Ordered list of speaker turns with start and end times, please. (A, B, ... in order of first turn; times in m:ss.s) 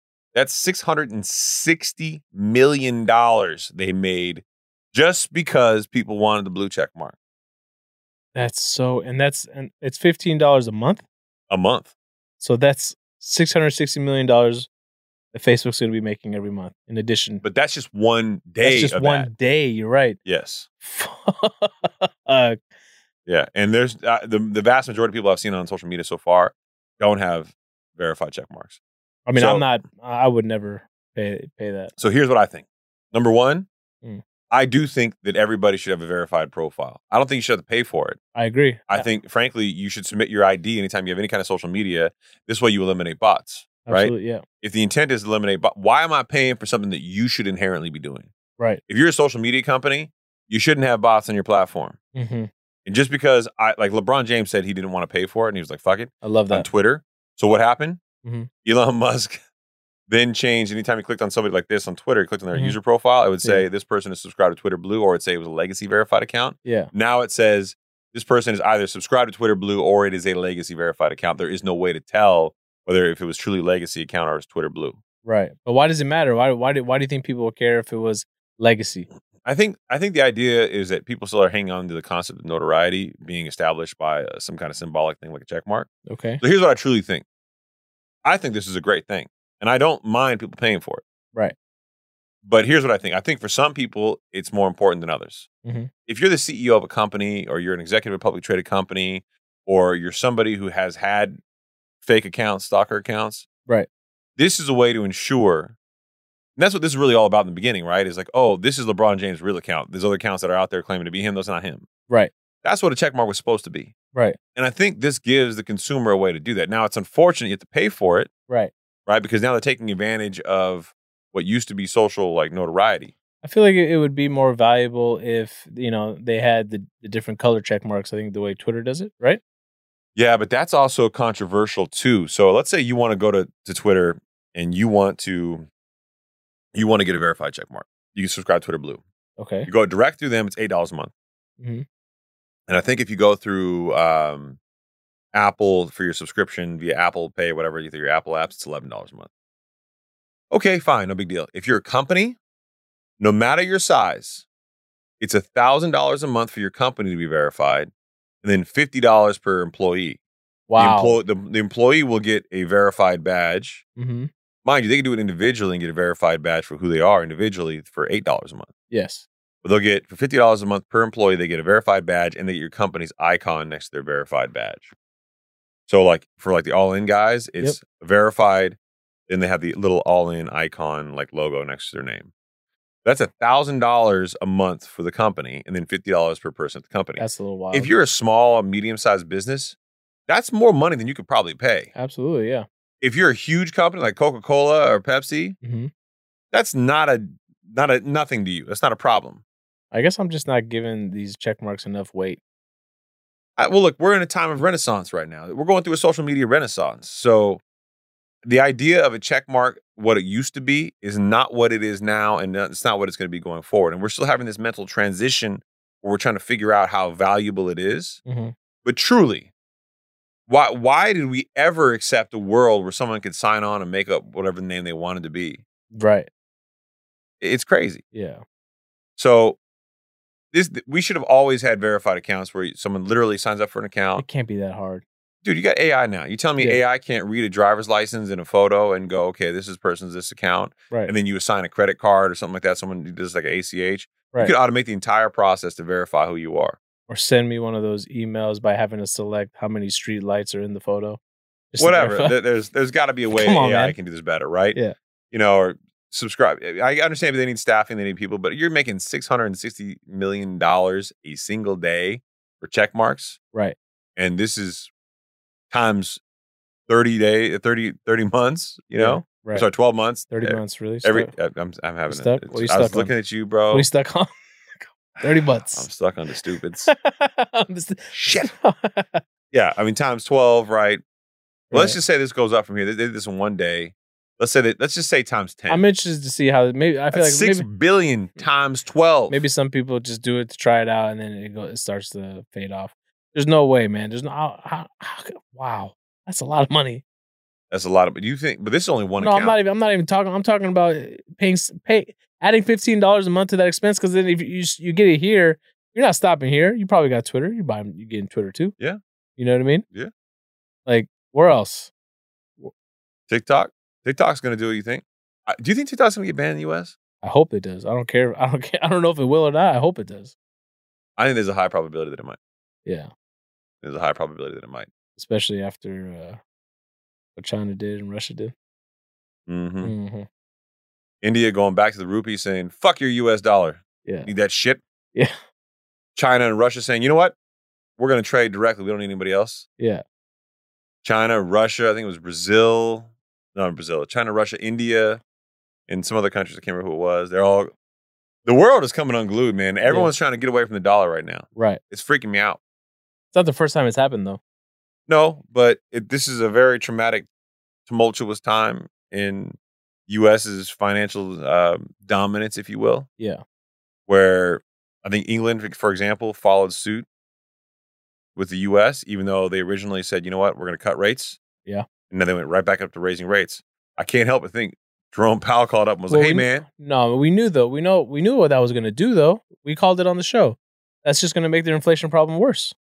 0:00.3-0:07.2 A
0:08.4-0:11.0 B
0:11.5-0:11.9 A
0:12.4-0:14.7 B
0:15.3-0:17.4 B
0:17.4-0:19.3 A
0:18.6-0:20.2 B
0:20.2-0:20.7 A
0:20.8-0:22.6 B
0:23.3-0:28.8 A
0:29.3-0:31.9 B
0:29.3-0:29.7 A
0:32.0-0:33.7 A
0:34.5-0:38.2 A
0:38.4-0:39.1 B
0:38.9-0:48.3 A
0:43.9-0:44.4 B
0:48.9-0:52.0 A
0:52.2-0:52.5 B
0:52.9-0:58.0 A
0:56.2-0:56.7 B
0:58.2-0:58.5 B
0:58.6-0:59.4 A
1:00.1-1:15.0 A
1:06.6-1:06.9 B
1:15.2-1:19.1 B
1:19.4-1:25.9 A
1:26.1-1:26.4 B
1:26.4-1:27.2 A
1:28.2-1:31.0 A
1:32.4-1:35.5 A
1:35.6-1:35.9 B
1:36.1-1:41.4 A
1:42.0-1:43.5 A
1:44.4-1:45.8 A
1:46.6-1:51.9 A
1:52.6-1:53.9 A
1:54.1-1:54.4 B
1:54.6-1:58.3 A
1:59.1-2:03.1 A
2:03.4-2:09.4 B
2:10.2-2:15.7 A
2:16.7-2:19.0 A
2:19.4-2:19.7 B
2:19.7-2:21.1 A
2:21.6-2:21.8 B
2:22.7-2:24.6 A
2:25.3-2:29.3 A
2:30.5-2:32.4 A
2:33.2-2:34.5 A
2:35.2-2:37.9 A
2:38.4-2:40.2 A
2:40.7-2:41.2 B
2:40.8-2:43.8 A
2:44.0-2:44.3 B
2:44.6-2:48.7 A
2:48.9-2:49.3 B
2:49.6-2:54.9 A
2:55.9-2:58.8 A
2:59.3-3:02.3 A
3:03.0-3:09.8 A
3:07.2-3:07.9 B
3:10.3-3:11.9 A
3:12.0-3:12.7 B
3:13.0-3:15.6 A
3:15.6-3:15.9 B
3:16.5-3:19.4 A
3:19.9-3:22.4 B
3:23.6-3:27.6 A
3:28.4-3:38.2 A
3:38.3-3:38.5 B
3:38.8-3:39.5 A
3:40.5-3:45.6 A
3:45.9-3:46.3 B
3:47.4-3:48.0 A
3:48.1-3:48.4 B
3:49.2-3:49.6 A
3:50.5-3:54.2 A
3:54.2-3:55.0 B
3:55.4-4:06.8 A
4:07.1-4:11.2 B
4:11.7-4:12.4 B
4:11.8-4:14.8 A
4:13.3-4:14.0 B
4:15.3-4:23.4 A
4:24.2-4:24.9 A
4:25.7-4:26.2 A
4:26.9-4:33.9 A
4:29.0-4:29.7 B
4:30.3-4:31.3 B
4:32.1-4:33.1 B
4:33.7-4:35.9 B
4:35.2-4:36.9 A
4:36.5-4:39.2 B
4:38.1-4:38.5 A
4:39.5-4:41.0 A
4:41.7-4:42.0 B
4:41.7-4:45.8 A
4:45.7-4:47.6 B
4:47.1-4:49.4 A
4:49.3-4:57.0 B
4:57.7-4:59.6 A
4:59.2-5:08.7 B
5:09.4-5:09.8 B
5:10.9-5:11.9 B
5:13.3-5:17.0 A
5:17.2-5:20.3 B
5:21.2-5:22.4 A
5:23.8-5:24.9 A
5:25.2-5:26.4 B
5:27.4-5:28.5 B
5:29.5-5:29.9 A
5:29.8-5:30.3 B
5:31.2-5:34.8 A
5:34.0-5:34.3 B
5:36.2-5:37.4 A
5:38.0-5:39.7 A
5:41.0-5:45.2 A
5:45.9-5:47.7 A
5:48.4-5:52.6 A
5:51.6-5:51.8 B
5:53.3-5:54.4 B
5:55.1-5:57.3 A
5:57.9-6:03.1 A
6:04.1-6:07.1 A
6:08.4-6:11.4 A
6:12.1-6:16.7 A
6:16.1-6:22.7 B